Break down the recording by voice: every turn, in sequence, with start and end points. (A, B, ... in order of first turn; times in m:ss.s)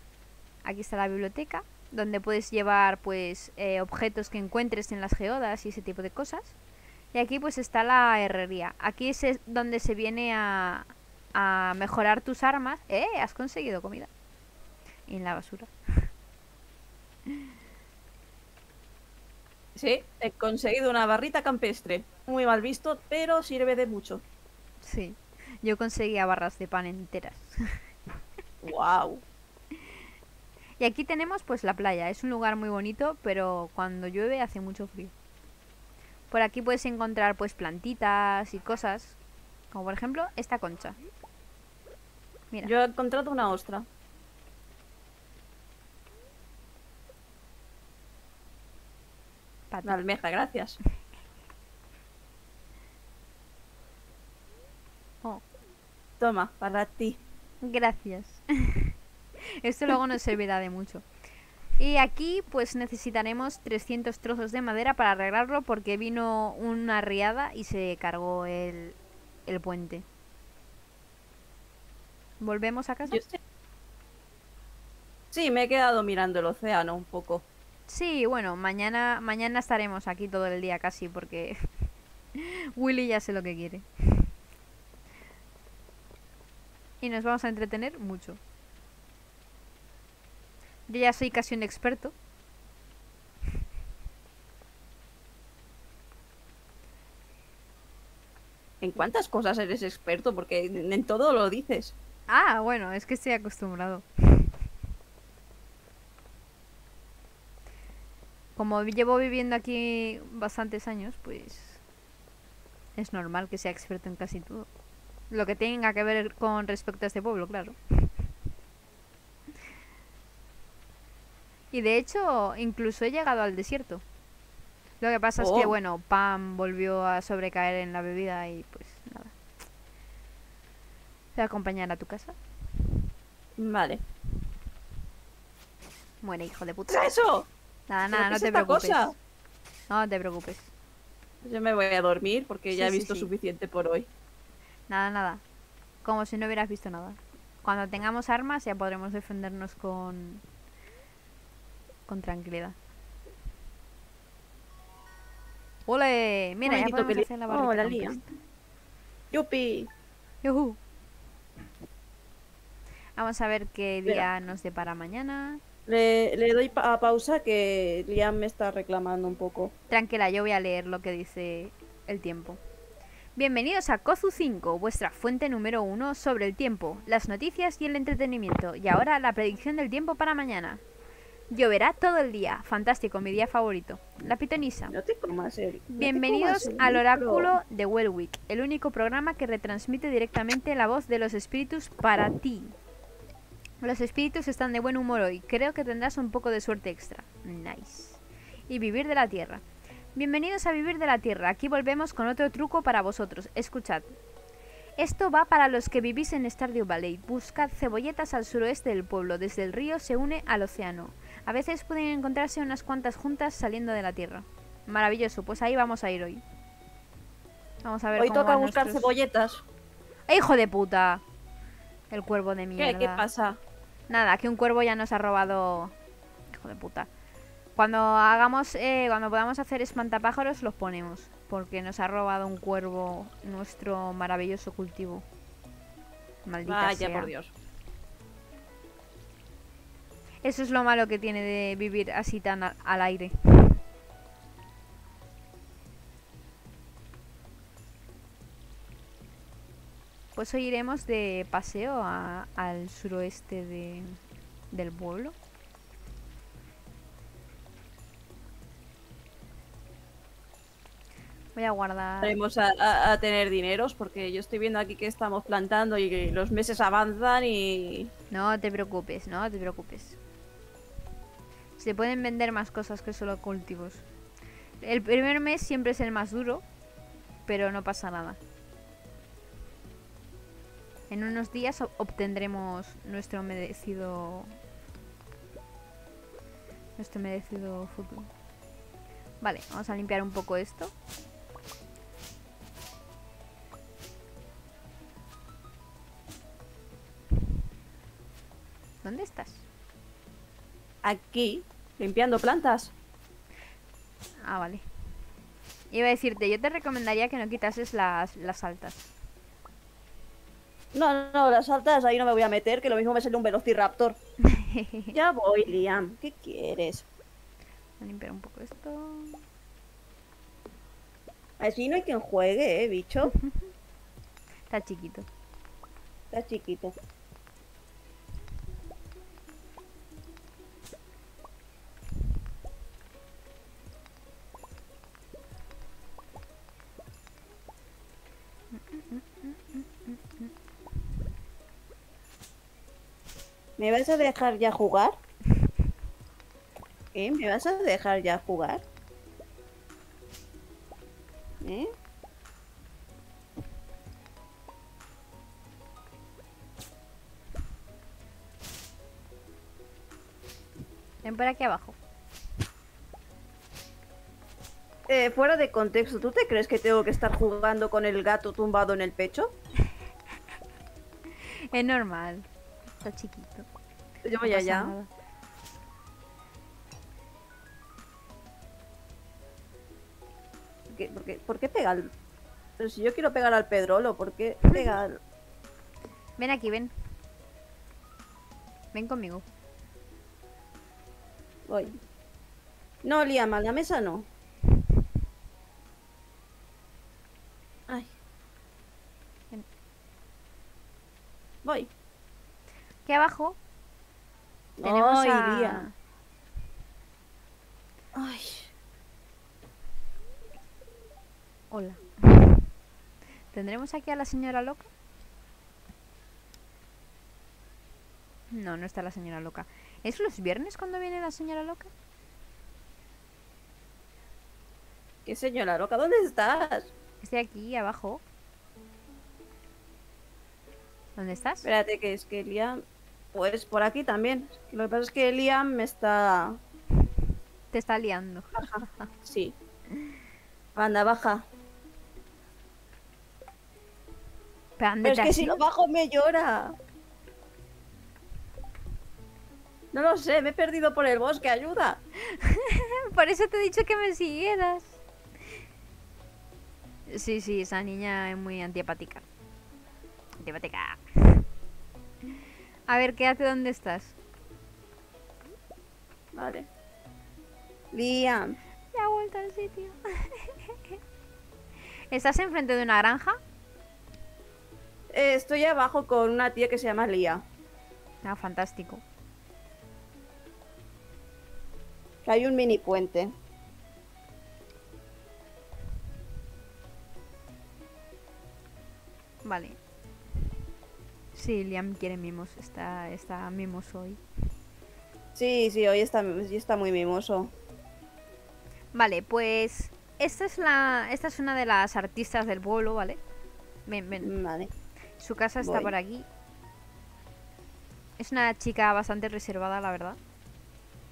0:00.6-0:06.5 A
0:07.1-0:14.1 A
0:15.1-0:16.1 A
0:19.8-0:24.2 B
0:24.8-0:27.8 A
0:28.6-0:29.2 B
0:30.8-0:35.1 A
0:36.3-0:39.2 A
0:39.7-0:41.0 A
0:42.6-0:43.9 B
0:49.7-0:50.0 A
0:49.8-0:50.8 B
0:56.2-0:57.2 B
0:57.6-0:58.9 A
0:59.6-1:01.0 A
1:01.8-1:09.0 A
1:09.5-1:10.0 A
1:12.4-1:13.2 A
1:13.1-1:13.4 B
1:15.3-1:17.4 B
1:17.9-1:21.6 A
1:22.4-1:24.3 A
1:27.0-1:28.4 A
1:30.9-1:32.1 A
1:38.8-1:42.0 B
1:42.3-1:44.5 A
1:48.6-1:51.8 A
1:53.0-1:54.7 A
1:55.3-1:58.1 A
2:01.7-2:04.0 A
2:05.0-2:09.3 A
2:05.4-2:05.8 B
2:11.4-2:12.4 A
2:13.6-2:14.0 B
2:16.2-2:17.1 A
2:16.9-2:17.5 B
2:17.9-2:19.1 A
2:18.1-2:19.2 B
2:19.9-2:20.7 A
2:21.4-2:24.1 B
2:22.7-2:23.3 A
2:24.9-2:25.4 A
2:26.0-2:30.4 A
2:32.1-2:32.8 A
2:35.9-2:38.4 A
2:36.7-2:38.2 B
2:39.3-2:39.9 B
2:40.4-2:40.8 A
2:43.2-2:45.6 A
2:45.9-2:49.7 B
2:49.9-2:52.6 A
2:53.4-3:00.8 A
3:01.5-3:04.9 A
3:04.9-3:07.6 B
3:05.9-3:12.8 A
3:13.8-3:19.6 A
3:20.2-3:24.1 A
3:25.0-3:36.4 A
3:37.8-3:39.1 A
3:38.2-3:39.6 B
3:40.3-3:41.2 A
3:42.1-3:43.2 A
3:42.8-3:43.6 B
3:44.1-3:46.0 A
3:46.5-3:47.1 A
3:47.8-3:55.2 A
3:56.4-3:57.3 A
3:56.7-3:57.5 B
4:00.4-4:03.8 A
4:10.4-4:14.2 A
4:14.7-4:15.4 A
4:21.6-4:22.4 A
4:22.2-4:28.1 B
4:28.3-4:30.2 A
4:31.8-4:34.0 A
4:34.8-4:36.6 A
4:37.5-4:38.4 A
4:41.1-4:44.5 A
4:47.0-4:48.3 A
4:49.4-4:50.9 A
4:59.0-4:59.6 A
5:01.0-5:02.9 B
5:04.4-5:04.8 A
5:05.9-5:09.1 A
5:10.9-5:14.2 B
5:14.4-5:15.2 A
5:15.1-5:17.1 B
5:18.0-5:19.4 A
5:21.6-5:23.3 B
5:23.2-5:23.6 A
5:24.7-5:25.3 A
5:26.3-5:27.0 B
5:38.7-5:40.5 A
5:43.8-5:45.2 B
5:47.1-5:48.8 B
5:51.6-5:51.9 B
6:01.2-6:02.0 A
6:05.1-6:09.5 B
6:11.7-6:12.5 A
6:13.0-6:13.7 A
6:14.2-6:14.9 B
6:14.4-6:15.1 A
6:20.9-6:22.1 B
6:22.8-6:25.2 B
6:24.7-6:25.0 A
6:26.4-6:26.9 A
6:28.9-6:29.4 A
6:31.7-6:32.0 B
6:33.0-6:34.3 B
6:41.6-6:41.9 B
6:43.1-6:43.6 A
6:44.8-6:45.8 B
6:44.8-6:45.9 A
6:48.1-6:48.7 B
6:51.7-6:52.6 A
6:53.5-6:54.9 A
6:58.5-7:01.9 A
7:05.3-7:06.9 B
7:07.2-7:08.2 A
7:11.2-7:11.7 A
7:11.6-7:12.8 B
7:13.3-7:16.6 B
7:17.7-7:19.1 A
7:18.6-7:19.6 B
7:20.8-7:21.4 B
7:24.8-7:25.6 A
7:25.0-7:26.8 B
7:29.9-7:32.0 B
7:32.3-7:35.0 A
7:37.1-7:39.2 A
7:40.4-7:41.4 A
7:42.9-7:44.2 A
7:46.4-7:46.7 B
7:47.9-7:48.6 B
7:48.9-7:51.0 A
7:52.1-7:53.4 A
7:55.1-7:57.4 B
7:58.2-7:59.0 A
8:02.2-8:03.3 B
8:09.4-8:09.8 A
8:11.3-8:14.2 A
8:15.4-8:17.5 B
8:18.9-8:23.2 A
8:23.9-8:24.3 A
8:24.2-8:24.7 B
8:25.2-8:26.3 A
8:25.6-8:25.9 B
8:28.2-8:30.2 A